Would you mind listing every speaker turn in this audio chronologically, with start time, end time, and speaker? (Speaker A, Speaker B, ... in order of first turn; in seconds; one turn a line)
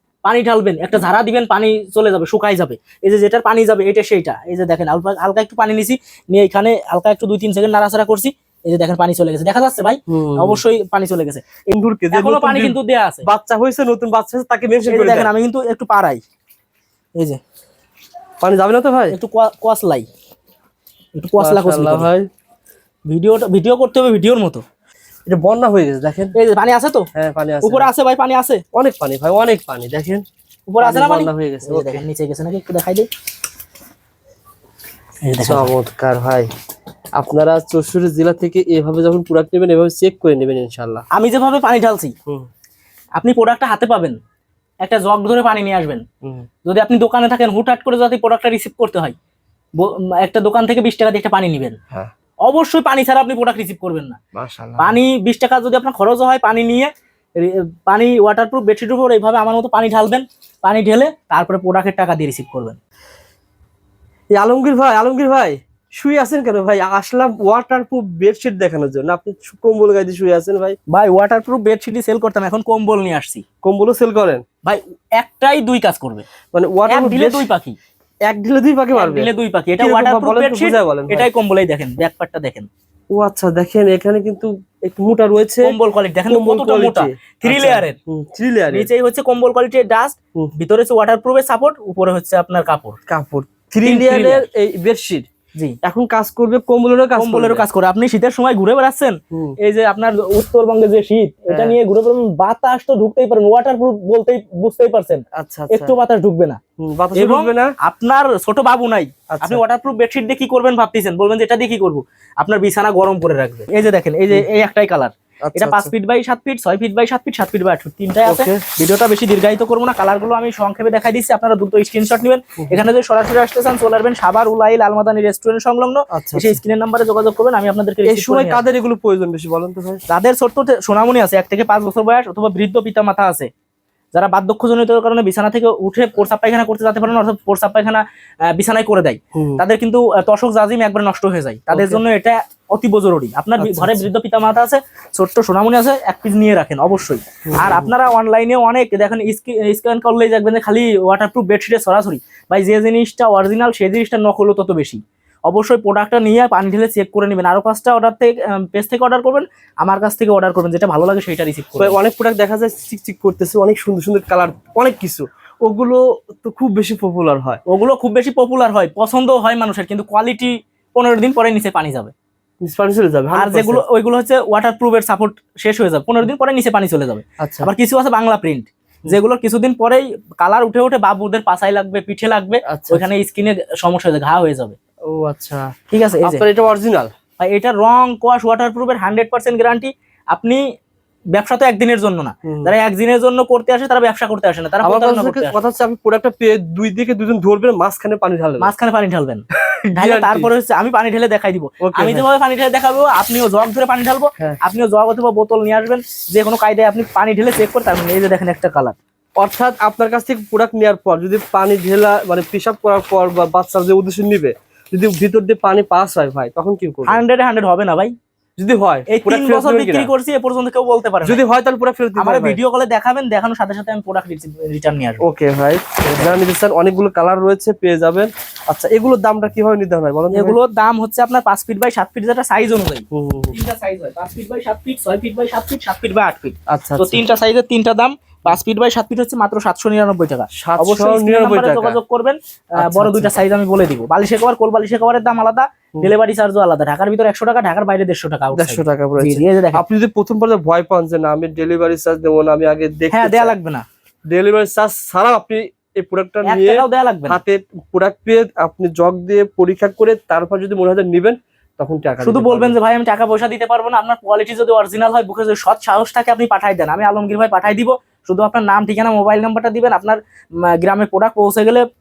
Speaker A: 0.2-13.3
Speaker B: 10.1-10.6
Speaker B: 11.7-15.3
Speaker A: 14.9-16.2
Speaker A: 17.1-17.4
Speaker B: 18.4-19.2
Speaker A: 19.1-20.1
Speaker A: 21.1-22.1
Speaker B: 21.4-22.3
Speaker A: 23.1-24.6
Speaker B: 25.3-26.4
Speaker A: 26.4-27.1
Speaker B: 27.1-27.9
Speaker A: 27.6-28.6
Speaker B: 28.7-30.2
Speaker A: 30.7-33.1
Speaker B: 30.8-32.0
Speaker A: 35.2-35.7
Speaker B: 35.5-36.5
Speaker B: 37.2-41.1
Speaker A: 41.1-42.1
Speaker A: 43.2-44.2
Speaker A: 44.8-46.0
Speaker A: 46.6-49.1
Speaker A: 49.8-51.8
Speaker A: 52.5-54.2
Speaker B: 54.3-55.0
Speaker A: 54.8-62.8
Speaker B: 64.3-70.8
Speaker A: 70.9-73.4
Speaker B: 73.6-74.4
Speaker A: 74.6-76.3
Speaker B: 76.5-77.5
Speaker A: 76.9-77.8
Speaker B: 78.3-81.3
Speaker A: 78.9-82.7
Speaker B: 83.1-85.8
Speaker A: 85.6-88.0
Speaker B: 86.3-88.9
Speaker A: 88.7-93.0
Speaker B: 93.1-95.3
Speaker A: 93.8-94.5
Speaker B: 95.8-97.7
Speaker A: 97.2-106.6
Speaker B: 99.3-99.6
Speaker B: 101.5-101.8
Speaker B: 105.3-106.0
Speaker B: 106.8-107.7
Speaker A: 107.2-128.6
Speaker B: 109.3-109.6
Speaker B: 115.5-115.9
Speaker B: 118.3-118.6
Speaker B: 126.1-126.6
Speaker B: 128.1-130.0
Speaker A: 130.1-133.5
Speaker A: 134.1-162.0
Speaker B: 139.3-139.6
Speaker B: 141.7-142.0
Speaker B: 143.6-144.1
Speaker B: 147.5-147.9
Speaker B: 161.8-167.6
Speaker A: 167.7-172.1
Speaker B: 172.6-173.8
Speaker A: 173.3-184.8
Speaker B: 177.4-177.7
Speaker B: 182.7-183.1
Speaker B: 185.1-185.7
Speaker A: 185.9-186.4
Speaker B: 186.2-187.1
Speaker A: 187.4-190.6
Speaker A: 191.3-195.6
Speaker B: 192.4-192.8
Speaker B: 194.8-198.7
Speaker A: 198.6-209.0
Speaker B: 200.0-200.5
Speaker B: 201.8-202.3
Speaker B: 209.4-217.2
Speaker A: 217.1-218.1
Speaker B: 218.6-220.1
Speaker A: 219.1-221.4
Speaker B: 221.2-222.6
Speaker A: 222.2-225.2
Speaker B: 225.2-230.6
Speaker A: 230.3-249.8
Speaker B: 233.1-233.6
Speaker B: 236.7-237.2
Speaker B: 240.5-242.0
Speaker B: 242.8-243.3
Speaker B: 248.5-253.6
Speaker A: 253.1-253.8
Speaker B: 254.3-262.8
Speaker A: 256.4-257.4
Speaker A: 262.2-271.9